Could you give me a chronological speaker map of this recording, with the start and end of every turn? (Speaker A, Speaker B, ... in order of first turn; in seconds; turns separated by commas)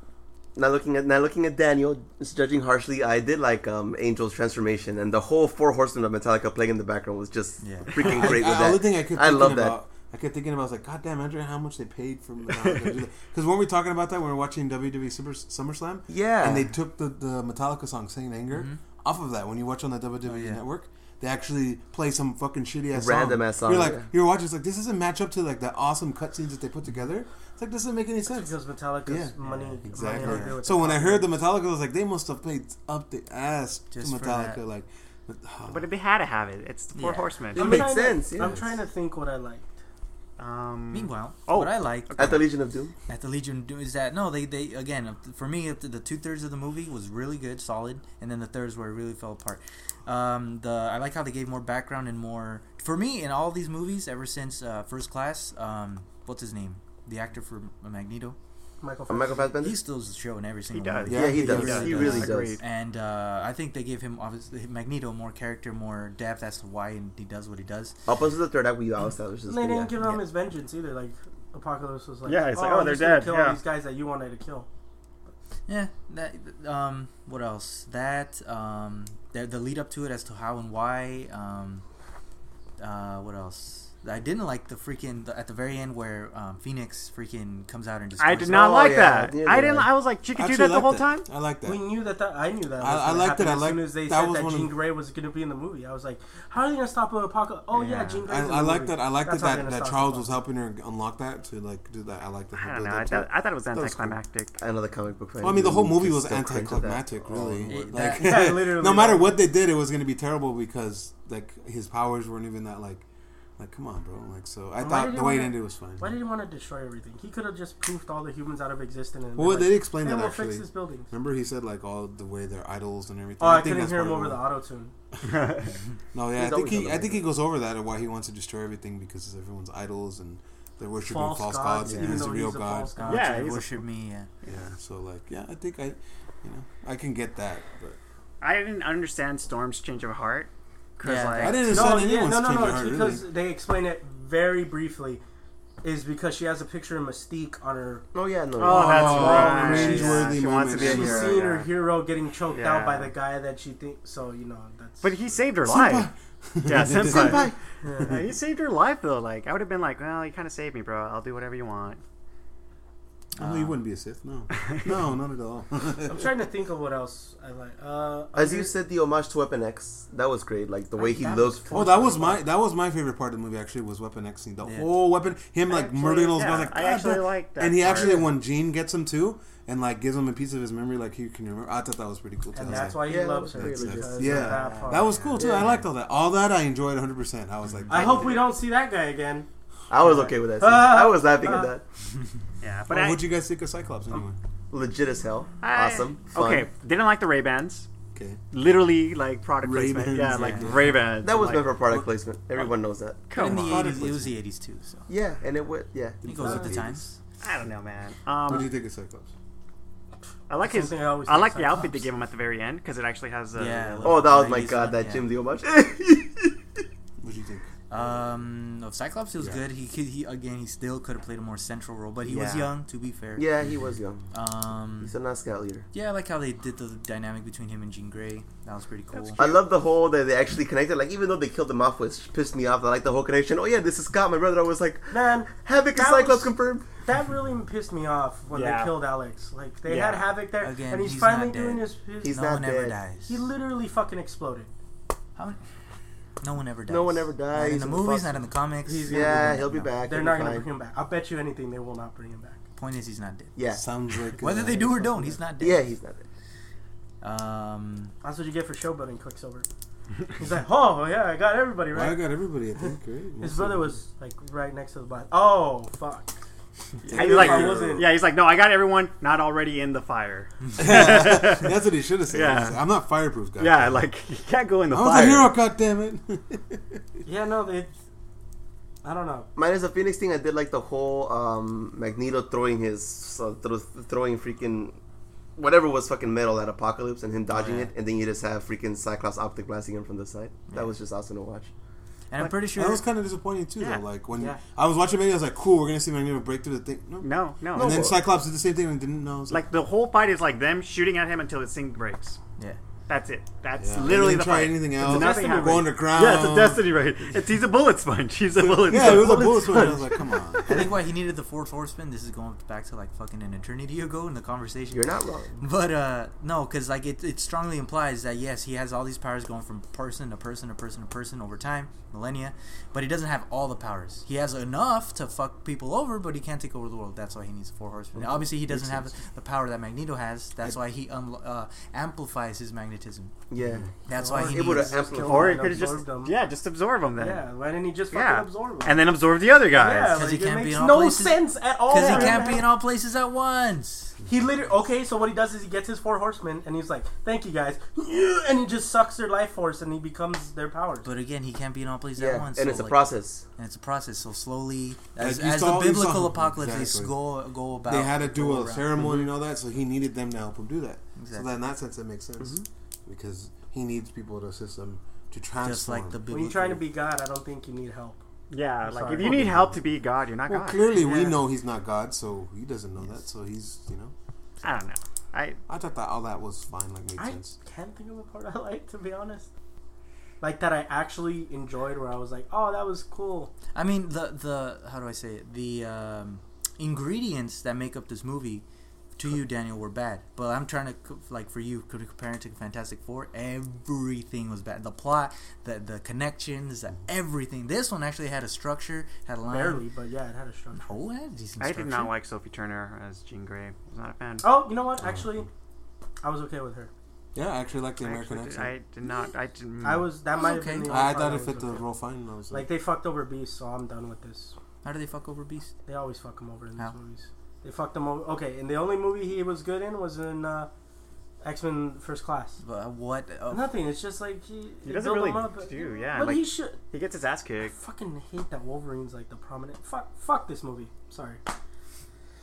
Speaker A: 0.6-9.8, Speaker B: 7.6-8.0, Speaker C: 8.0-28.6, Speaker D: 12.6-12.9, Speaker A: 16.1-16.7, Speaker B: 18.5-18.8, Speaker B: 20.2-20.6, Speaker A: 22.9-24.1, Speaker E: 28.2-31.3, Speaker C: 29.1-35.9, Speaker B: 30.1-30.6, Speaker B: 33.9-34.6, Speaker D: 35.7-37.9, Speaker B: 36.9-37.3, Speaker A: 37.5-38.5, Speaker E: 37.5-39.7, Speaker C: 38.4-38.7, Speaker D: 40.4-41.7, Speaker B: 40.9-42.5, Speaker A: 42.1-42.9, Speaker B: 43.1-58.4, Speaker E: 58.8-59.5, Speaker A: 59.1-59.8, Speaker B: 59.6-68.0, Speaker D: 60.7-62.6, Speaker C: 61.1-62.3, Speaker A: 61.1-62.6, Speaker A: 68.0-70.0, Speaker E: 69.5-74.7, Speaker B: 70.0-70.2, Speaker D: 72.3-73.6, Speaker B: 75.7-81.8, Speaker B: 82.8-88.7, Speaker D: 88.2-91.3, Speaker A: 88.5-89.9, Speaker C: 90.3-91.8, Speaker E: 91.6-100.4, Speaker C: 92.8-94.7, Speaker D: 97.7-98.2, Speaker C: 98.2-104.2, Speaker D: 102.5-104.5, Speaker A: 104.6-107.7, Speaker C: 105.4-113.0, Speaker B: 107.7-108.5, Speaker E: 108.0-109.3, Speaker C: 113.6-116.2, Speaker E: 114.8-121.1, Speaker C: 119.3-124.4, Speaker E: 123.4-124.9, Speaker C: 125.1-125.5, Speaker D: 125.2-125.7, Speaker C: 126.1-133.0, Speaker A: 126.3-127.2, Speaker E: 131.0-133.5, Speaker A: 131.8-132.3, Speaker B: 133.0-134.3, Speaker D: 133.1-133.8, Speaker C: 134.4-138.0, Speaker D: 138.4-141.9, Speaker B: 141.0-141.9, Speaker C: 141.4-143.2, Speaker E: 141.7-145.2, Speaker E: 145.8-148.0, Speaker A: 148.1-149.6, Speaker D: 148.6-151.7, Speaker C: 148.6-151.5, Speaker E: 149.0-155.1, Speaker B: 149.6-150.2, Speaker D: 152.5-153.2, Speaker D: 155.0-156.1, Speaker C: 155.6-157.5, Speaker D: 156.6-162.0, Speaker A: 157.0-157.6, Speaker E: 157.8-158.2, Speaker B: 163.4-163.8, Speaker C: 163.4-166.3, Speaker D: 164.6-164.8, Speaker E: 166.1-168.7, Speaker A: 168.3-172.2, Speaker E: 170.9-172.4, Speaker C: 171.7-188.4, Speaker B: 174.6-175.0, Speaker D: 175.7-178.3, Speaker E: 178.0-178.2, Speaker E: 182.5-185.7, Speaker A: 183.0-184.6, Speaker D: 184.5-184.9, Speaker B: 184.8-185.8, Speaker B: 187.7-188.2, Speaker E: 187.9-189.5, Speaker D: 188.1-188.5, Speaker A: 189.9-191.8, Speaker E: 190.0-191.7, Speaker D: 192.6-193.3, Speaker C: 192.9-194.4, Speaker A: 194.7-196.7, Speaker D: 195.6-197.9, Speaker C: 198.1-198.4, Speaker D: 198.5-201.7, Speaker C: 199.6-201.1, Speaker B: 200.3-200.9, Speaker A: 201.2-203.2, Speaker D: 203.3-204.1, Speaker B: 203.3-205.1, Speaker C: 203.6-204.3, Speaker A: 205.1-206.8, Speaker B: 206.2-207.1, Speaker C: 206.4-207.1, Speaker E: 206.4-206.8, Speaker D: 207.4-208.7, Speaker C: 208.4-209.3, Speaker D: 210.5-214.4, Speaker E: 210.6-211.9, Speaker B: 213.6-215.3, Speaker A: 214.0-216.6, Speaker C: 217.2-217.7, Speaker B: 217.9-223.5, Speaker D: 222.3-222.7, Speaker A: 223.4-224.2, Speaker B: 224.3-225.1, Speaker A: 225.0-225.8, Speaker B: 225.9-229.5, Speaker D: 229.1-229.6, Speaker A: 229.4-236.9, Speaker E: 235.1-242.4, Speaker D: 238.5-239.0, Speaker D: 239.8-240.3, Speaker B: 240.6-243.4, Speaker A: 242.2-243.0, Speaker E: 243.3-244.7, Speaker B: 246.4-249.9, Speaker A: 246.9-248.4, Speaker E: 248.8-252.6, Speaker A: 249.1-250.7, Speaker B: 252.8-253.6, Speaker A: 253.6-253.8, Speaker C: 253.7-255.3, Speaker B: 254.4-255.9, Speaker A: 255.6-256.2, Speaker B: 257.2-258.1, Speaker E: 258.2-259.6, Speaker E: 260.4-266.4, Speaker C: 261.9-264.0, Speaker C: 267.0-268.0, Speaker D: 267.1-271.7, Speaker E: 267.1-268.1, Speaker C: 270.8-274.0, Speaker D: 272.3-272.8, Speaker D: 273.6-275.5, Speaker C: 274.9-277.0, Speaker E: 277.2-277.9, Speaker E: 279.0-279.5, Speaker A: 279.6-284.9, Speaker A: 285.6-291.7, Speaker B: 287.5-287.9, Speaker B: 292.3-293.0, Speaker C: 292.6-299.6, Speaker D: 293.8-294.0, Speaker D: 297.2-298.1, Speaker A: 297.8-298.2, Speaker D: 299.5-302.4, Speaker D: 303.1-309.3, Speaker C: 303.8-306.9, Speaker E: 305.0-305.9, Speaker C: 308.6-310.9, Speaker E: 308.9-310.2, Speaker B: 309.7-310.0, Speaker B: 310.6-333.3, Speaker A: 314.9-315.6, Speaker A: 328.1-329.0, Speaker A: 333.5-335.9, Speaker B: 334.1-335.0, Speaker E: 334.1-336.4, Speaker D: 335.2-337.4, Speaker E: 337.2-339.0, Speaker D: 338.1-340.1, Speaker E: 339.7-342.7, Speaker B: 340.1-344.1, Speaker D: 341.9-342.6, Speaker E: 344.3-351.1, Speaker B: 351.0-353.0, Speaker A: 352.2-353.4, Speaker B: 353.6-359.3, Speaker C: 355.2-357.1, Speaker C: 357.8-366.3, Speaker B: 361.1-361.5, Speaker B: 365.6-366.8, Speaker E: 366.3-368.2, Speaker D: 368.5-370.9, Speaker E: 368.8-369.5, Speaker C: 369.1-369.8, Speaker C: 370.5-374.1, Speaker E: 370.9-371.4, Speaker D: 374.6-375.6, Speaker C: 375.7-377.6, Speaker E: 377.2-379.5, Speaker E: 380.4-383.5, Speaker B: 383.7-388.6, Speaker B: 389.2-399.9, Speaker E: 399.5-401.0, Speaker B: 400.8-402.1, Speaker D: 401.6-404.4, Speaker E: 404.4-405.5, Speaker C: 405.0-405.4, Speaker E: 406.2-406.9, Speaker C: 407.3-408.7, Speaker D: 408.0-410.1, Speaker E: 409.8-411.9, Speaker B: 410.3-411.1, Speaker C: 410.8-412.7, Speaker E: 412.5-414.6, Speaker B: 414.8-415.7, Speaker E: 415.9-420.7, Speaker E: 421.4-422.6, Speaker B: 422.6-423.7, Speaker E: 423.5-426.8, Speaker D: 424.8-427.7, Speaker E: 427.7-431.4